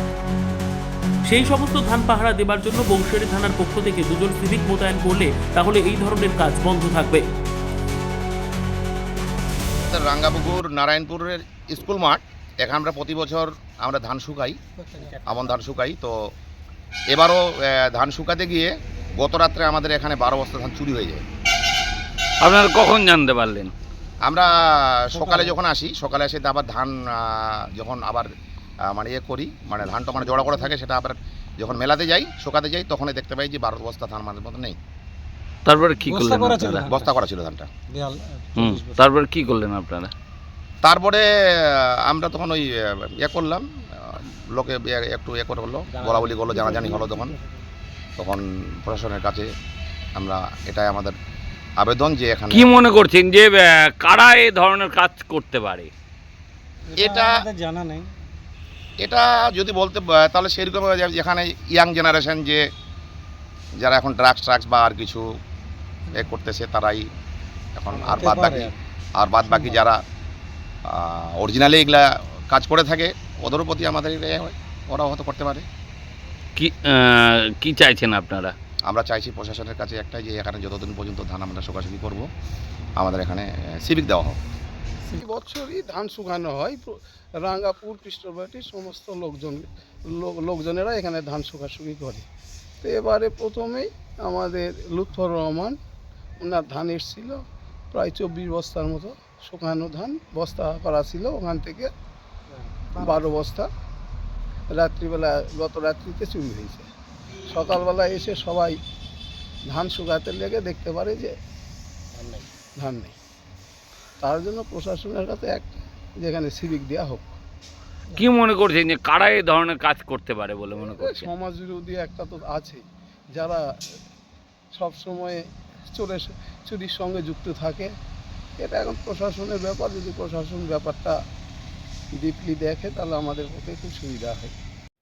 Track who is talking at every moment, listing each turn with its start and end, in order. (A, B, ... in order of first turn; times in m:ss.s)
0:01.3-0:07.2 A
0:09.8-0:14.6 B
0:14.9-0:15.2 C
0:15.2-0:16.1 B
0:17.1-0:21.2 B
0:22.4-0:23.7 D
0:24.2-0:28.3 B
0:28.9-0:34.8 B
0:35.6-0:37.0 D
0:36.0-0:37.1 C
0:36.8-0:37.7 B
0:37.9-0:39.0 C
0:38.6-0:40.1 D
0:40.8-0:47.4 B
0:46.0-0:47.4 C
0:48.2-0:49.5 B
0:50.2-0:51.1 B
0:51.8-0:52.7 B
0:52.5-0:55.9 D
0:56.9-0:58.1 C
0:57.0-0:57.4 B
0:59.0-1:02.6 B
1:03.8-1:05.2 B
1:06.1-1:07.1 B
1:07.8-1:10.0 B
1:07.9-1:08.7 C
1:10.9-1:15.6 B
1:16.6-1:18.5 D
1:18.9-1:22.3 B
1:23.0-1:24.4 B
1:25.2-1:32.2 E
1:32.8-1:35.8 E
1:36.4-1:41.9 E
1:42.7-1:43.3 C
1:43.0-1:43.7 E
1:44.7-1:46.9 E
1:47.5-1:48.8 E
1:49.7-1:51.3 E
1:52.2-1:52.5 C
1:52.8-1:53.1 E
1:54.2-1:57.3 E
1:58.1-2:01.3 D
2:00.8-2:02.8 E
2:03.3-2:03.6 E
2:04.7-2:07.9 E
2:08.6-2:11.2 E
2:12.2-2:14.5 E